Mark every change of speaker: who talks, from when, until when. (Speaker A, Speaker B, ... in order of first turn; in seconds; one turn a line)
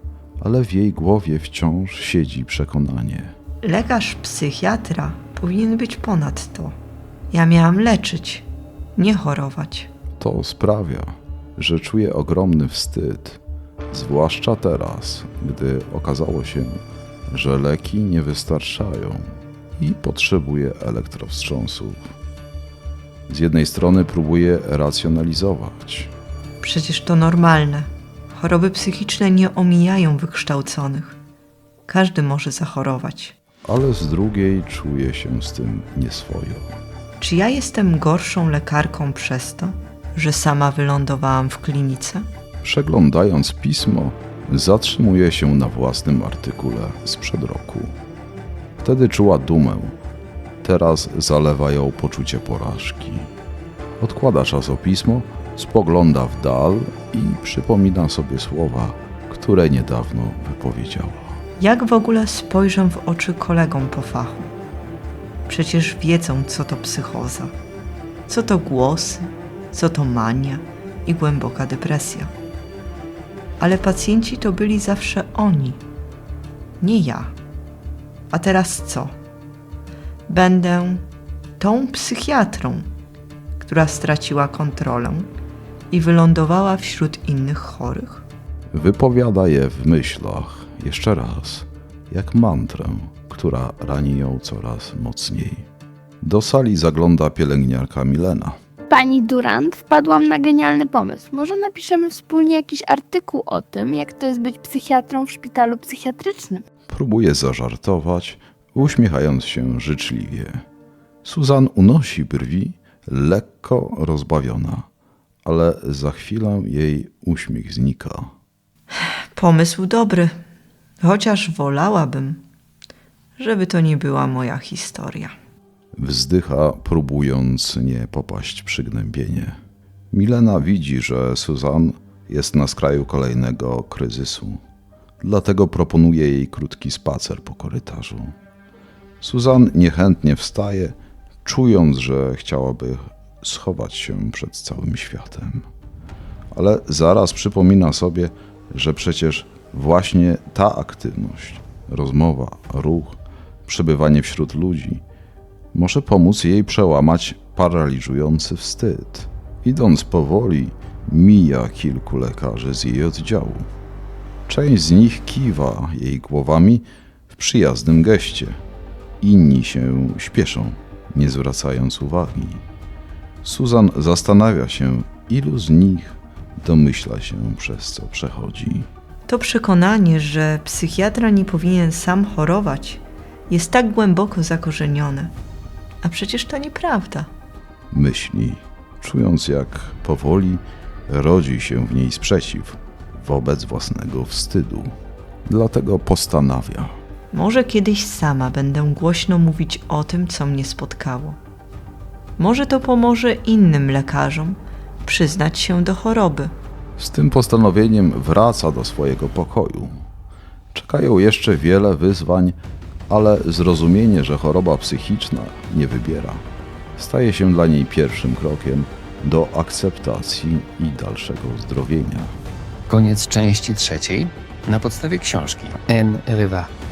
Speaker A: 0.4-3.3
Speaker B: 3.6-6.7
Speaker B: 7.3-8.5
Speaker B: 9.0-9.9
Speaker A: 10.2-13.4
Speaker A: 13.9-22.1
Speaker A: 23.3-26.1
Speaker B: 26.6-31.2
Speaker B: 31.9-33.4
Speaker A: 33.7-36.7
Speaker B: 37.2-42.2
Speaker A: 42.6-47.9
Speaker A: 48.8-50.0
Speaker A: 50.6-53.3
Speaker A: 54.0-61.4
Speaker B: 61.6-64.5
Speaker B: 65.5-67.5
Speaker B: 68.3-72.3
Speaker B: 73.6-75.8
Speaker B: 76.8-77.3
Speaker B: 78.3-79.1
Speaker B: 80.3-81.0
Speaker B: 81.6-82.9
Speaker B: 83.6-85.3
Speaker B: 85.9-88.2
Speaker A: 88.7-95.7
Speaker A: 96.2-98.6
Speaker C: 98.9-106.6
Speaker A: 106.9-110.6
Speaker A: 111.2-114.9
Speaker A: 115.5-118.3
Speaker B: 119.4-120.3
Speaker B: 121.0-122.4
Speaker B: 123.4-125.3
Speaker A: 126.0-129.6
Speaker A: 130.1-134.6
Speaker A: 135.2-138.3
Speaker A: 139.2-145.7
Speaker A: 146.5-155.0
Speaker A: 155.7-163.7
Speaker A: 164.5-168.6
Speaker A: 169.2-172.6
Speaker A: 173.4-178.9
Speaker B: 179.3-185.3
Speaker B: 186.0-187.3
Speaker A: 187.9-194.9
Speaker A: 195.5-196.9
Speaker B: 197.3-201.4
Speaker B: 202.4-206.5
Speaker A: 207.0-210.0
Speaker A: 210.7-212.6
Speaker A: 213.1-216.4
Speaker A: 217.0-222.3
Speaker D: 222.9-226.7